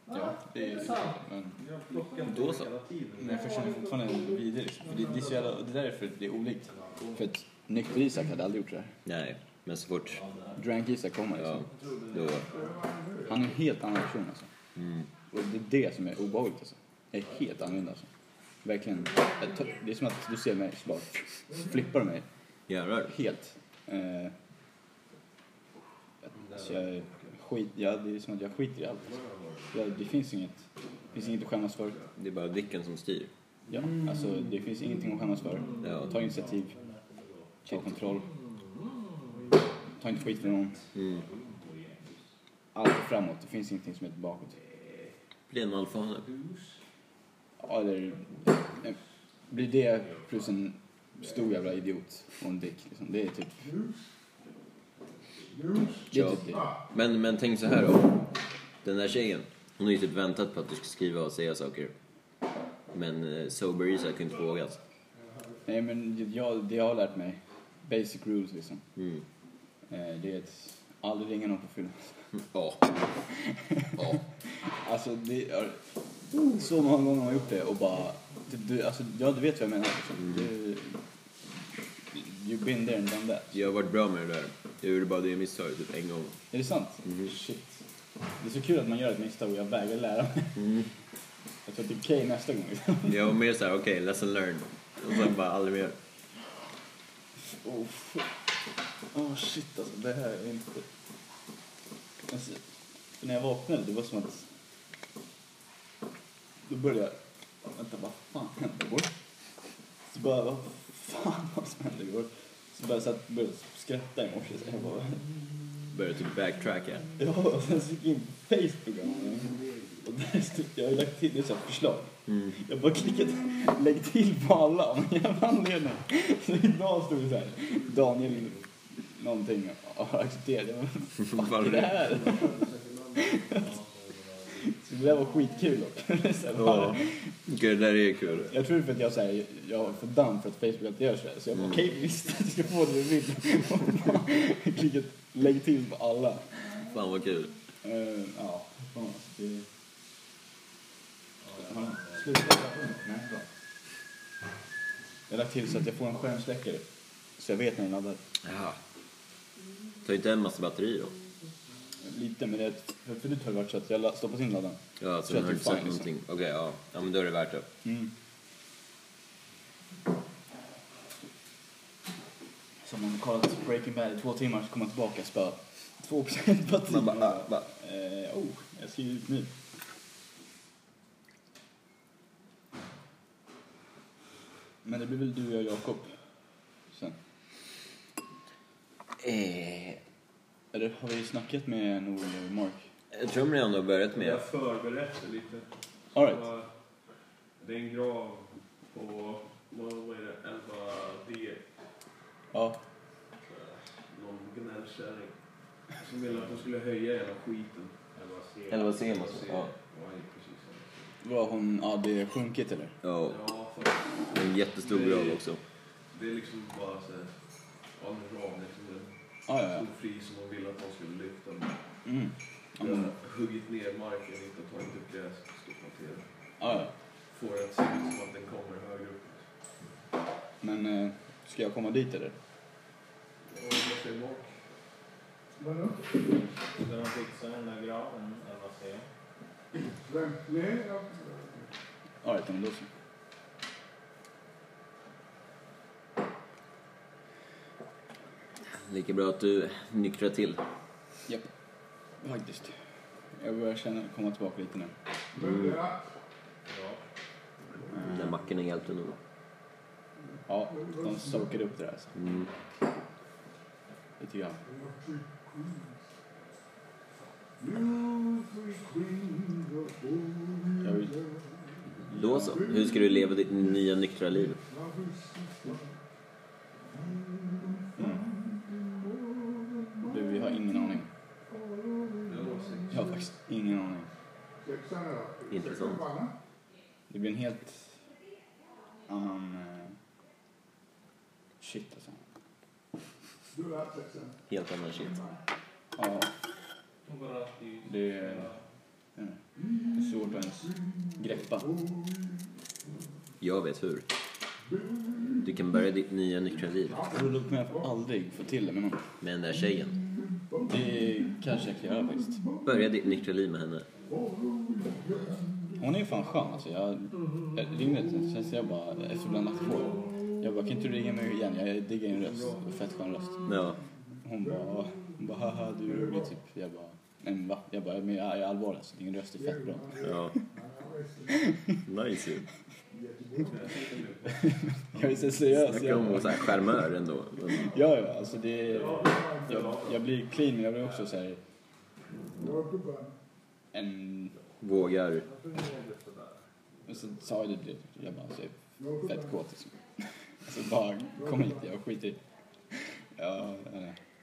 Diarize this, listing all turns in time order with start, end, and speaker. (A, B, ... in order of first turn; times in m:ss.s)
0:00.1-0:01.6 A
0:00.6-0:03.5 B
0:02.2-0:02.7 C
0:03.2-0:08.9 A
0:06.7-0:07.1 D
0:09.0-0:10.2 C
0:10.1-0:10.6 D
0:10.6-0:11.7 A
0:11.4-0:12.4 C
0:11.7-0:12.8 D
0:12.5-0:13.4 E
0:13.2-0:14.5 A
0:14.8-0:15.1 C
0:15.3-0:18.1 A
0:18.6-0:22.2 A
0:21.5-0:21.8 E
0:22.7-0:23.1 C
0:23.1-0:24.3 A
0:26.4-0:32.0 A
0:29.1-0:30.0 D
0:32.2-0:33.3 C
0:33.7-0:36.7 A
0:35.8-0:36.1 C
0:36.1-0:37.6 D
0:37.6-0:38.2 A
0:39.3-0:39.6 D
0:40.0-0:40.8 A
0:40.9-0:41.2 C
0:40.9-0:42.2 D
0:42.7-0:44.6 A
0:44.7-0:45.1 D
0:45.5-0:46.2 C
0:46.3-0:46.6 D
0:47.6-0:49.0 A
0:49.5-0:53.7 A
0:50.1-0:50.5 D
0:53.6-0:54.1 E
0:55.5-0:56.7 E
0:56.1-0:56.7 A
0:56.1-0:58.2 C
0:58.8-1:01.9 C
1:02.9-1:04.8 C
1:05.3-1:05.6 E
1:05.6-1:08.8 A
1:09.0-1:09.2 C
1:09.9-1:12.3 A
1:12.3-1:12.9 C
1:13.2-1:21.0 A
1:14.0-1:14.2 C
1:22.1-1:23.7 A
1:23.5-1:26.4 C
1:26.5-1:27.8 A
1:28.4-1:30.7 A
1:30.6-1:30.8 C
1:31.6-1:33.3 A
1:33.0-1:36.0 C
1:37.4-1:38.3 A
1:39.1-1:40.8 A
1:42.3-1:42.6 A
1:43.2-1:44.5 A
1:46.6-1:49.2 A
1:50.1-1:55.3 A
1:55.9-1:57.1 C
1:57.2-2:12.6 A
2:02.3-2:02.5 C
2:11.2-2:12.0 C
2:12.0-2:13.3 B
2:13.2-2:13.7 A
2:13.4-2:14.7 D
2:14.6-2:17.3 A
2:16.6-2:18.5 C
2:18.5-2:26.7 A
2:26.9-2:27.5 C
2:27.8-2:29.7 A
2:31.4-2:32.5 D
2:31.6-2:33.4 A
2:35.3-2:38.2 A
2:38.4-2:38.8 C
2:40.0-2:41.2 C
2:42.0-2:46.1 A
2:45.0-2:47.7 C
2:47.8-2:48.1 A
2:52.8-2:59.5 A
2:56.9-2:57.7 C
3:04.8-3:06.2 A
3:06.9-3:07.2 A
3:09.2-3:10.0 C
3:10.7-3:12.9 A
3:13.1-3:14.4 C
3:14.1-3:16.7 B
3:16.1-3:16.4 A
3:17.6-3:21.6 B
3:22.5-3:22.8 A
3:23.4-3:28.0 B
3:26.3-3:26.6 D
3:28.1-3:29.1 D
3:28.7-3:29.7 C
3:29.1-3:31.1 B
3:31.2-3:32.9 A
3:33.0-3:33.4 C
3:33.2-3:41.8 B
3:34.3-3:35.6 C
3:39.4-3:39.8 A
3:42.0-3:43.1 A
3:42.8-3:49.5 B
3:46.6-3:46.9 A
3:50.6-3:52.4 A
3:53.5-3:54.6 B
3:55.6-3:56.2 E
3:56.7-3:59.1 D
4:00.0-4:01.7 E
4:02.2-4:02.9 A
4:08.7-4:10.6 C
4:12.2-4:12.7 A
4:13.3-4:14.9 A
4:15.3-4:16.0 E
4:15.4-4:15.8 C
4:16.6-4:17.0 D
4:17.8-4:18.3 E
4:17.9-4:18.3 A
4:18.1-4:19.2 C
4:20.5-4:22.2 A
4:20.7-4:21.6 E
4:22.1-4:22.5 C
4:24.2-4:24.6 A
4:24.6-4:26.0 E
4:27.6-4:33.4 E
4:30.8-4:31.2 A
4:32.1-4:32.6 A
4:32.1-4:34.6 C
4:34.6-4:36.0 E
4:36.9-4:41.0 E
4:38.0-4:38.2 A
4:40.0-4:41.1 A
4:41.5-4:43.2 E
4:42.2-4:43.1 B
4:42.9-4:44.1 A
4:44.6-4:46.4 E
4:45.5-4:46.1 C
4:47.1-4:48.0 A
4:49.1-4:50.0 A
4:51.6-4:52.2 A
4:53.5-4:55.4 E
4:54.5-4:55.2 C
4:56.0-4:56.3 A
4:57.0-4:58.6 B
4:57.8-4:58.6 A
4:59.6-5:02.4 E
4:59.9-5:01.7 A
5:03.4-5:04.0 C
5:04.7-5:05.6 E
5:05.4-5:07.0 C
5:06.8-5:07.9 E
5:07.1-5:09.0 A
5:09.2-5:10.0 C
5:10.4-5:11.3 E
5:10.7-5:12.4 A
5:12.5-5:12.8 E
5:12.6-5:13.9 C
5:14.0-5:16.3 E
5:15.8-5:23.5 A
5:23.4-5:23.8 C
5:24.2-5:30.3 A
5:24.4-5:25.1 E
5:25.8-5:26.3 E
5:29.4-5:31.5 E
5:30.0-5:30.3 C
5:31.3-5:31.6 A
5:31.8-5:32.4 C
5:32.9-5:34.0 E
5:33.4-5:35.4 B
5:34.3-5:36.8 A
5:35.5-5:37.7 C
5:37.5-5:41.4 A
5:38.7-5:39.9 D
5:38.8-5:39.8 E
5:42.4-5:43.2 E
5:43.7-5:44.3 A
5:44.6-5:45.2 C
5:45.2-5:46.4 D
5:46.8-5:49.7 A
5:48.8-5:49.4 E
5:50.4-5:52.2 A
5:51.2-5:51.6 E
5:52.7-5:54.0 A